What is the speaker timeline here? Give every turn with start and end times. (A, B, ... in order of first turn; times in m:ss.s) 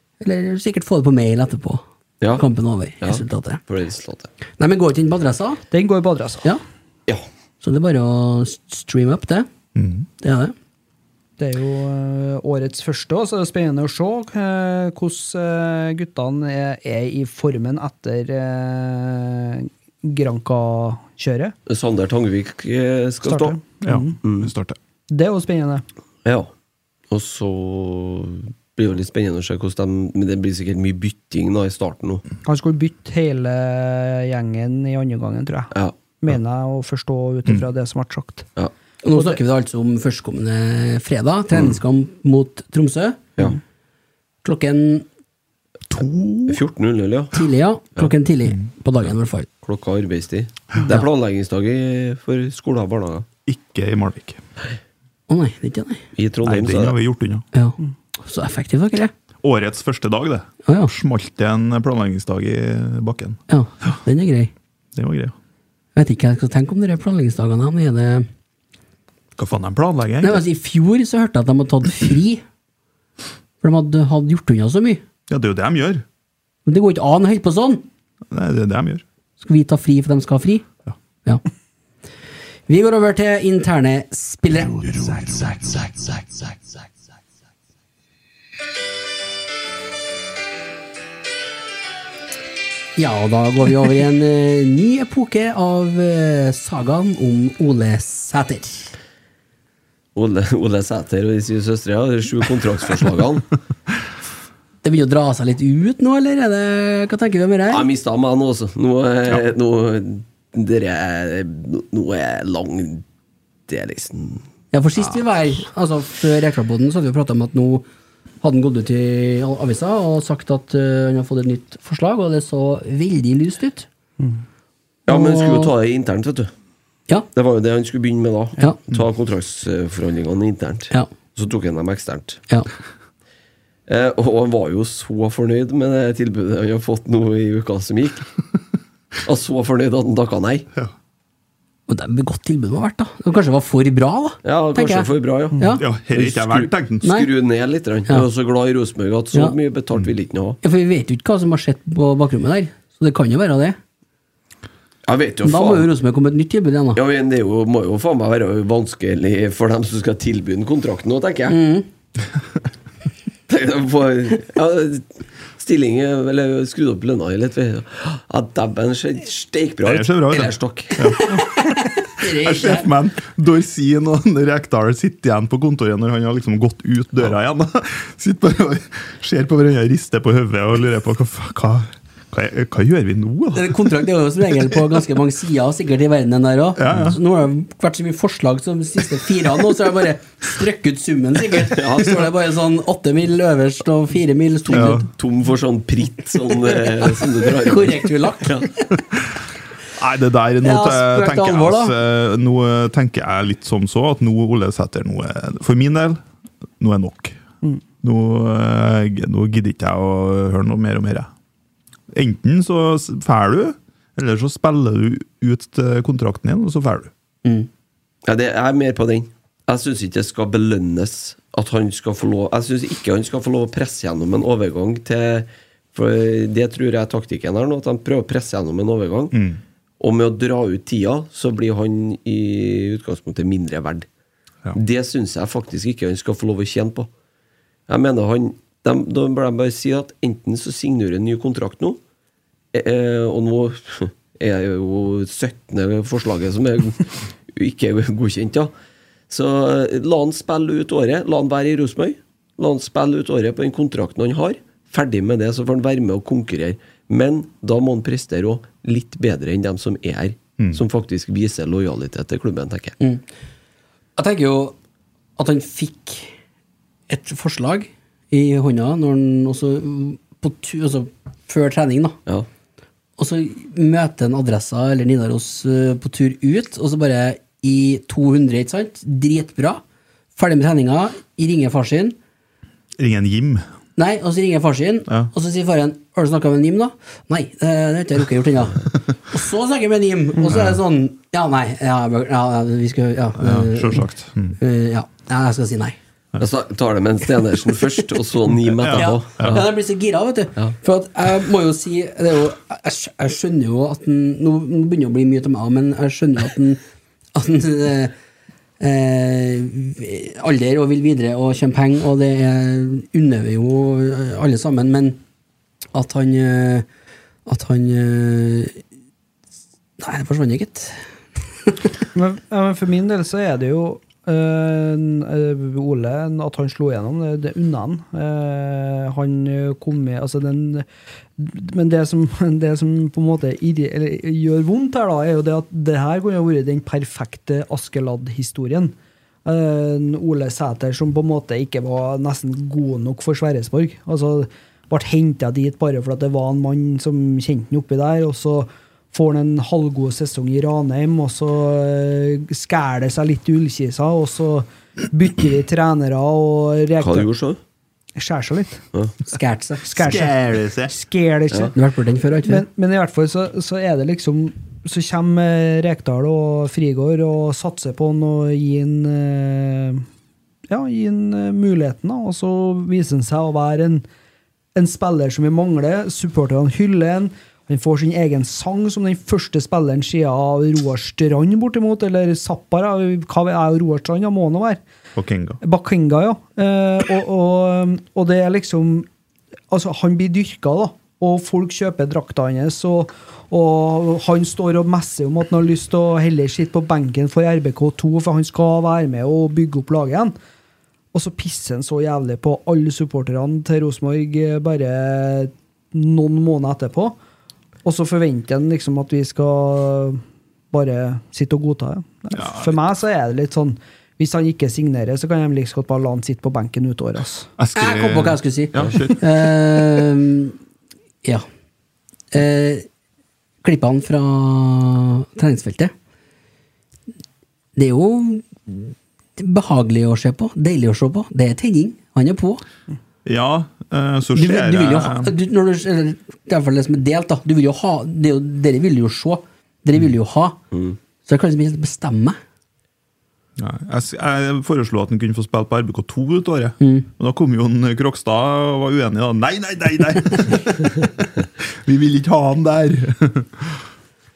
0:00.2-0:01.8 A
0:02.4-0:03.6 A
0:03.0-0:04.3 B
0:04.6-0:05.6 A
0:05.7-0:06.5 C
0:07.6-0:09.5 A
0:09.8-0:10.1 D
0:10.2-0:10.5 A
0:11.4-0:21.5 C
0:21.7-0:23.6 B
0:23.2-0:24.2 C
0:23.8-0:24.8 D
0:24.2-0:24.5 B
0:25.1-0:25.8 C
0:26.2-0:26.5 B
0:27.1-0:32.2 B
0:32.4-0:38.5 C
0:39.0-0:43.3 A
0:39.1-0:39.4 C
0:44.4-0:45.1 A
0:45.9-0:46.6 D
0:46.5-0:47.4 B
0:47.3-0:49.5 A
0:49.6-0:53.3 B
0:53.5-0:54.4 D
0:55.3-0:56.0 A
0:56.2-0:57.0 B
0:56.4-0:57.4 D
0:57.5-0:59.1 A
0:59.4-1:03.4 D
1:00.6-1:00.9 A
1:03.5-1:04.5 A
1:05.0-1:05.3 D
1:06.0-1:08.3 A
1:09.4-1:10.4 D
1:10.2-1:12.4 A
1:13.6-1:15.0 A
1:15.3-1:16.0 D
1:16.7-1:17.8 A
1:18.3-1:19.0 D
1:19.4-1:20.7 A
1:22.7-1:25.6 A
1:33.0-1:38.9 A
1:40.2-1:43.5 B
1:44.8-1:47.9 A
1:47.7-1:53.0 B
1:53.7-1:54.4 B
1:54.7-1:57.9 A
1:58.4-2:03.9 A
2:05.1-2:06.5 B
2:05.1-2:05.7 A
2:07.3-2:12.4 B
2:13.9-2:18.3 B
2:19.2-2:20.7 B
2:21.9-2:25.8 A
2:24.4-2:30.6 B
2:25.8-2:27.1 D
2:27.0-2:27.3 A
2:30.6-2:33.8 A
2:35.1-2:35.9 B
2:35.4-2:37.0 A
2:37.0-2:41.6 B
2:41.5-2:41.9 A
2:43.5-2:45.1 B
2:45.6-2:51.0 B
2:49.8-3:04.0 D
2:51.0-2:52.9 A
3:03.5-3:15.1 A
3:06.8-3:07.2 D
3:11.7-3:12.3 B
3:14.7-3:18.7 B
3:14.7-3:15.0 D
3:17.2-3:18.9 A
3:20.0-3:26.2 D
3:20.6-3:22.0 A
3:26.8-3:27.4 D
3:28.0-3:31.3 D
3:32.1-3:37.1 D
3:38.3-3:49.4 B
3:49.3-3:49.6 D
3:50.0-3:54.1 B
3:54.7-3:57.1 B
3:57.9-4:02.0 B
4:02.7-4:08.7 B
4:09.3-4:23.0 B
4:24.2-4:24.8 A
4:25.4-4:26.3 A
4:27.1-4:32.2 A
4:33.2-4:39.8 A
4:40.4-4:42.2 A
4:43.0-4:43.6 D
4:44.0-4:56.0 A
4:50.5-4:50.8 D
4:53.4-4:54.6 D
4:56.4-4:59.7 B
4:58.8-4:59.6 D
4:58.9-5:06.8 A
5:07.3-5:08.1 A
5:08.8-5:15.2 A
5:15.9-5:16.9 A
5:17.5-5:18.8 A
5:20.0-5:21.0 A
5:22.1-5:30.9 C
5:31.4-5:57.3 C
5:57.0-5:57.6 B
5:58.2-5:58.8 C
5:59.3-5:59.8 A
5:59.8-6:01.8 C
6:00.0-6:00.9 D
6:01.7-6:02.6 A
6:02.5-6:10.0 C
6:10.7-6:14.1 C
6:14.8-6:24.8 C
6:25.2-6:25.6 D
6:25.6-6:29.1 C
6:29.7-6:40.4 C
6:41.1-6:47.2 C
6:47.8-6:57.5 C
6:52.4-6:52.8 D
6:57.6-6:59.3 D
6:57.8-7:00.6 A
7:02.3-7:02.9 A
7:03.6-7:05.9 A
7:07.8-7:12.6 A
7:13.2-7:15.3 D
7:14.4-7:20.6 A
7:20.7-7:21.0 B
7:21.3-7:22.4 A
7:23.6-7:33.8 D
7:26.8-7:27.1 A